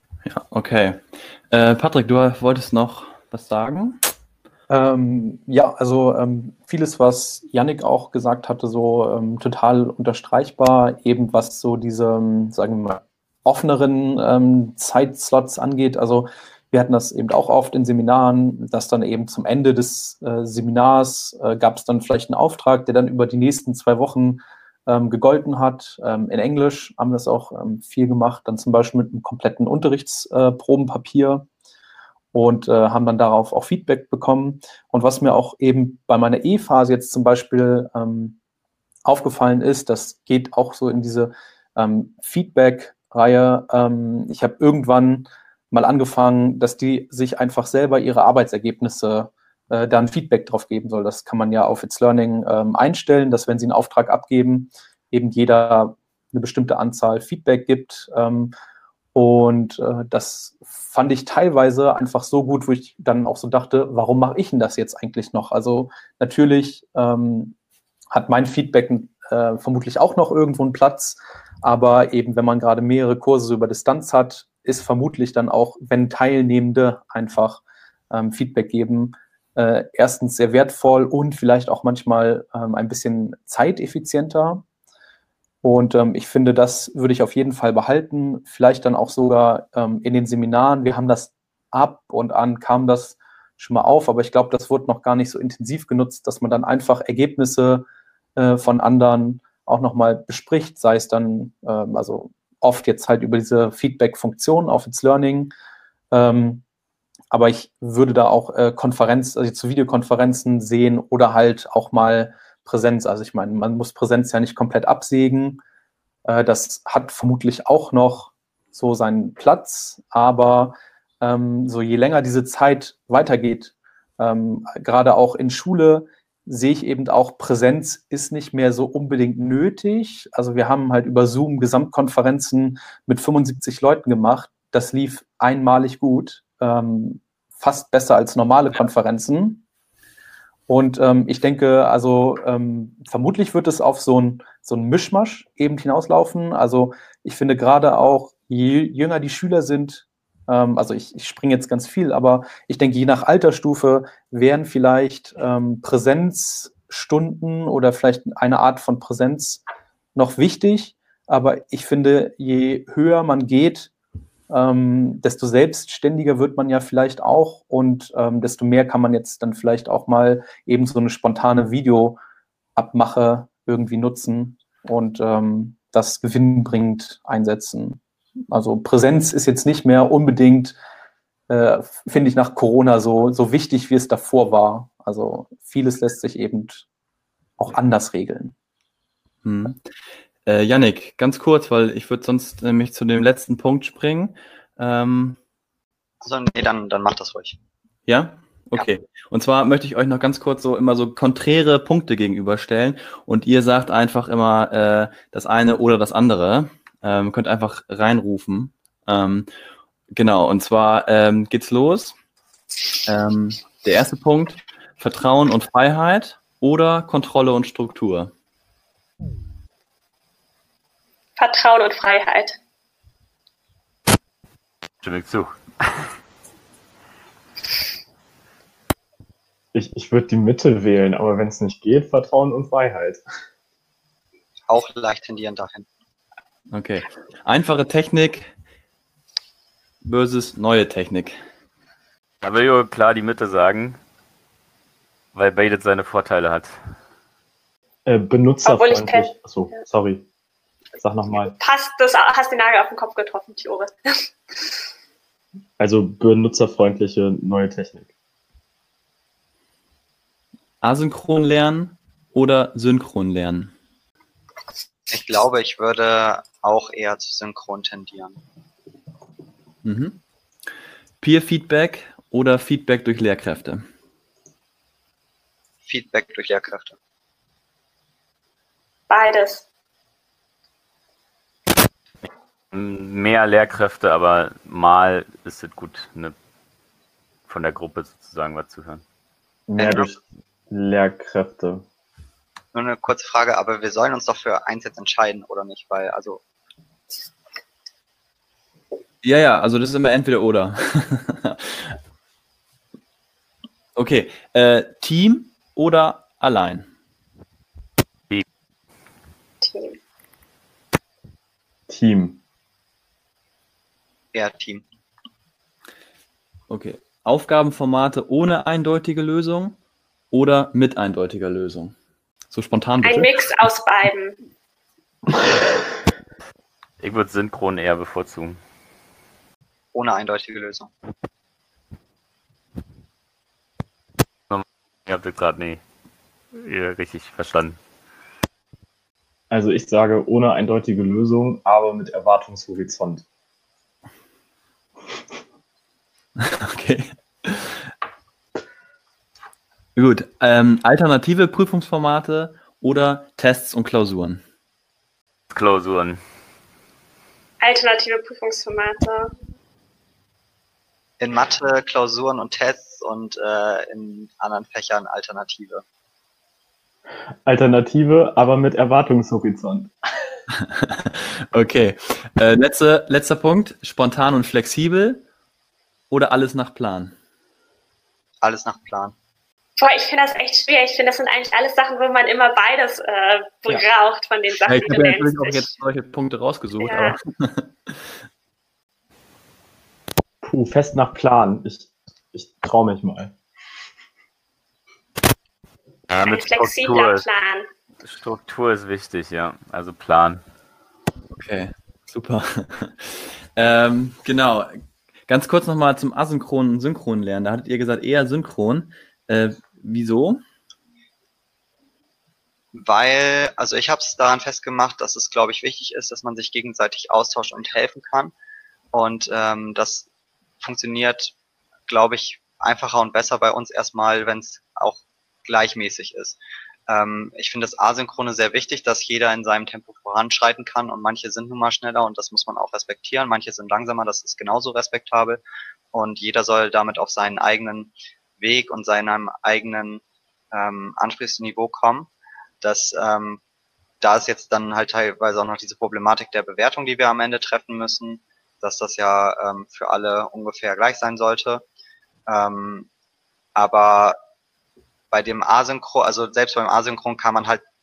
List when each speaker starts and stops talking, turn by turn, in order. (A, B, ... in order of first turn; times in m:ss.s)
0:00.2-0:04.0 A
0:04.7-0:31.4 B
0:32.3-0:38.4 B
0:39.0-0:58.5 B
0:59.1-1:07.6 B
1:08.1-1:24.6 B
1:25.6-1:45.5 B
1:46.1-1:46.6 B
1:47.3-1:55.6 B
1:56.2-2:19.6 B
2:20.7-2:39.6 B
2:40.1-2:43.9 B
2:44.5-2:52.2 B
2:52.8-2:58.0 B
2:58.5-3:00.8 B
3:01.5-3:06.9 B
3:07.6-3:08.5 B
3:09.4-3:09.8 A
3:10.4-3:15.4 A
3:16.2-3:17.6 C
3:18.1-3:29.5 A
3:30.1-3:32.1 A
3:33.0-3:38.3 A
3:41.4-3:42.6 D
3:45.0-3:46.1 E
3:49.7-3:53.2 F
3:54.7-3:55.9 C
3:56.7-3:58.5 A
4:00.0-4:01.4 A
4:02.4-4:04.0 E
4:05.3-4:06.7 E
4:08.0-4:10.2 F
4:08.6-4:09.3 D
4:11.0-4:11.6 F
4:11.6-4:14.2 D
4:15.8-4:18.1 F
4:20.8-4:23.7 A
4:25.1-4:28.4 C
4:29.8-4:30.2 A
4:31.2-4:33.8 A
4:35.8-4:37.0 C
4:39.1-4:39.6 D
4:42.7-4:46.3 E
4:47.5-4:49.0 E
4:49.7-4:50.2 F
4:49.8-4:50.1 C
4:50.7-4:51.8 F
4:52.7-4:56.4 C
4:59.2-5:02.0 A
5:03.9-5:06.9 A
5:09.6-5:10.0 D
5:11.9-5:12.4 F
5:14.3-5:14.8 C
5:16.7-5:19.8 A
5:20.3-5:21.9 A
5:22.5-5:23.4 A
5:23.0-5:24.4 D
5:27.0-5:28.6 E
5:29.9-5:30.9 C
5:34.5-5:35.8 E
5:36.5-5:37.8 E
5:39.5-5:43.2 F
5:46.4-5:47.9 A
5:50.0-5:54.4 A
5:55.5-5:56.2 E
5:57.6-5:59.3 D
6:01.2-6:05.8 C
6:07.4-6:09.9 F
6:10.5-6:15.2 A
6:16.1-6:17.1 A
6:18.4-6:19.1 C
6:19.8-6:25.7 D
6:24.6-6:28.1 A
6:26.8-6:27.2 D
6:30.4-6:33.3 F
6:36.1-6:37.2 E
6:36.2-6:37.7 D
6:38.0-6:40.4 E
6:41.3-6:50.4 A
6:52.7-6:58.3 C
6:58.9-7:00.1 C
7:00.6-7:01.3 C
7:01.9-7:15.4 C
7:15.9-7:22.1 C
7:22.6-7:23.4 C
7:24.0-7:31.6 C
7:32.3-7:32.9 C
7:33.6-7:34.2 C
7:35.1-7:37.6 C